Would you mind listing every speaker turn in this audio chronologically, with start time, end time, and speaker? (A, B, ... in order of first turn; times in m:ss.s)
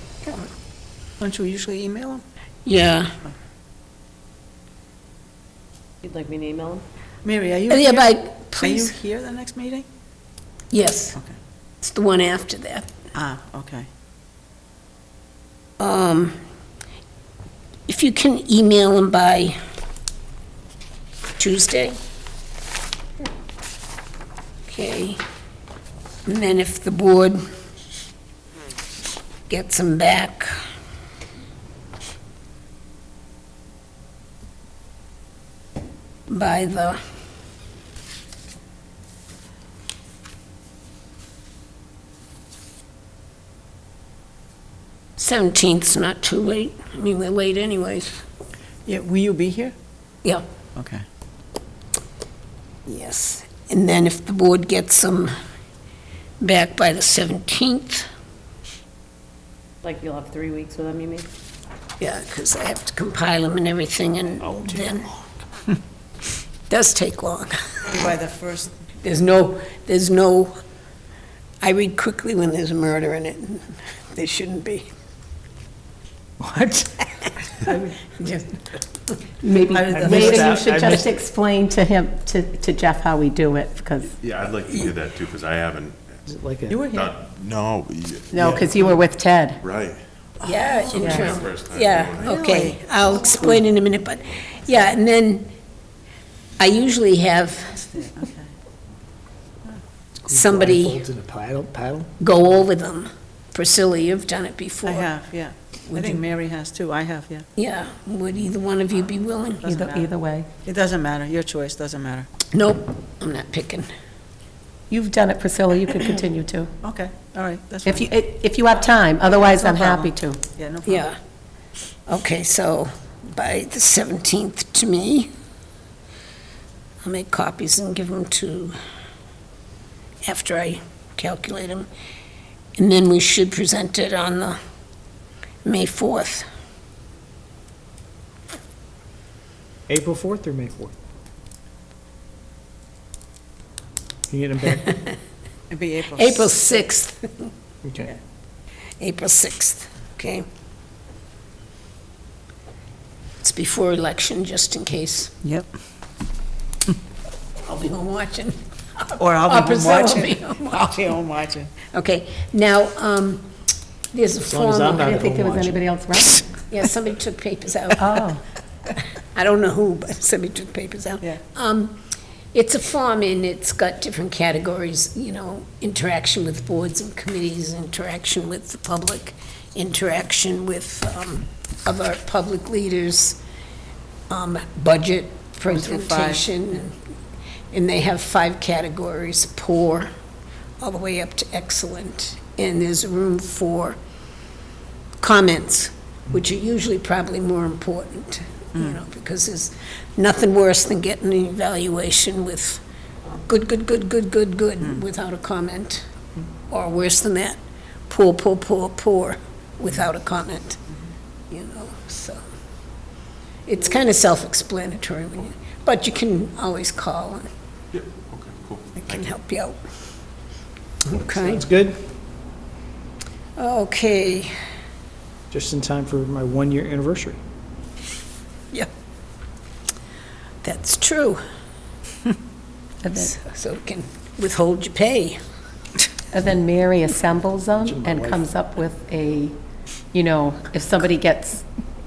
0:01.2-0:02.2 A
0:02.7-0:03.1 B
0:06.0-0:06.8 C
0:07.2-0:09.9 A
0:07.7-0:09.0 B
0:10.7-0:11.2 B
0:11.8-0:12.9 B
0:13.2-0:13.9 A
0:15.8-0:16.4 B
0:17.9-0:19.6 B
0:21.4-0:22.0 B
0:24.7-0:25.2 B
0:26.3-0:27.4 B
0:29.5-0:30.5 B
0:36.3-0:37.0 B
0:45.2-0:48.2 B
0:48.9-0:49.7 A
0:50.8-0:51.0 A
0:52.9-0:55.3 B
0:56.4-0:58.1 B
0:59.8-1:01.3 C
1:02.0-1:05.1 B
1:06.7-1:07.8 B
1:07.9-1:08.8 A
1:09.0-1:10.6 B
1:11.6-1:14.9 B
1:16.4-1:17.1 D
1:17.2-1:18.6 B
1:19.4-1:24.1 E
1:19.6-1:21.0 A
1:19.9-1:21.1 D
1:24.1-1:26.2 F
1:26.3-1:26.8 D
1:26.7-1:27.1 A
1:26.9-1:28.7 F
1:28.3-1:29.6 E
1:29.6-1:30.0 F
1:30.4-1:31.4 A
1:30.4-1:35.5 B
1:30.9-1:32.7 F
1:31.0-1:31.4 E
1:32.2-1:33.6 A
1:36.6-1:37.8 B
1:37.7-1:38.5 A
1:40.3-1:42.1 D
1:40.3-1:41.0 B
1:42.2-1:45.1 B
1:44.8-1:47.4 A
1:47.6-1:49.7 B
1:49.6-1:50.1 A
1:49.7-1:50.5 E
1:50.6-1:52.3 A
1:52.5-1:53.9 B
1:54.9-1:56.7 E
1:56.8-1:58.1 A
1:57.8-2:00.4 E
1:59.3-2:01.1 A
2:00.9-2:01.2 B
2:02.1-2:05.3 B
2:07.0-2:08.8 B
2:10.2-2:11.9 B
2:12.8-2:14.6 B
2:15.6-2:16.5 B
2:19.9-2:20.9 D
2:24.3-2:25.1 D
2:25.7-2:26.8 A
2:26.2-2:27.5 B
2:27.8-2:28.1 D
2:29.0-2:30.4 B
2:33.4-2:35.3 B
2:37.6-2:41.0 B
2:39.2-2:41.7 A
2:41.8-2:43.5 B
2:44.1-2:45.2 B
2:44.5-2:45.8 D
2:44.9-2:46.4 E
2:46.6-2:48.1 B
2:48.0-2:48.4 E
2:49.3-2:52.0 B
2:52.5-3:03.4 B
3:04.3-3:07.0 B
3:05.7-3:06.5 A
3:07.7-3:10.1 B
3:10.8-3:14.0 B
3:15.2-3:22.8 B
3:23.5-3:26.1 B
3:26.7-3:30.8 B
3:31.5-3:32.4 B
3:33.7-3:37.5 B
3:37.9-3:39.3 F
3:39.0-3:39.8 B
3:41.0-3:41.6 B
3:41.4-3:42.0 D
3:43.6-3:44.5 B
3:45.5-3:47.4 D
3:50.6-3:51.4 B
3:53.0-3:53.3 E
3:53.2-3:55.4 B
3:56.3-3:59.6 E
3:57.8-3:58.4 D
4:00.1-4:01.6 E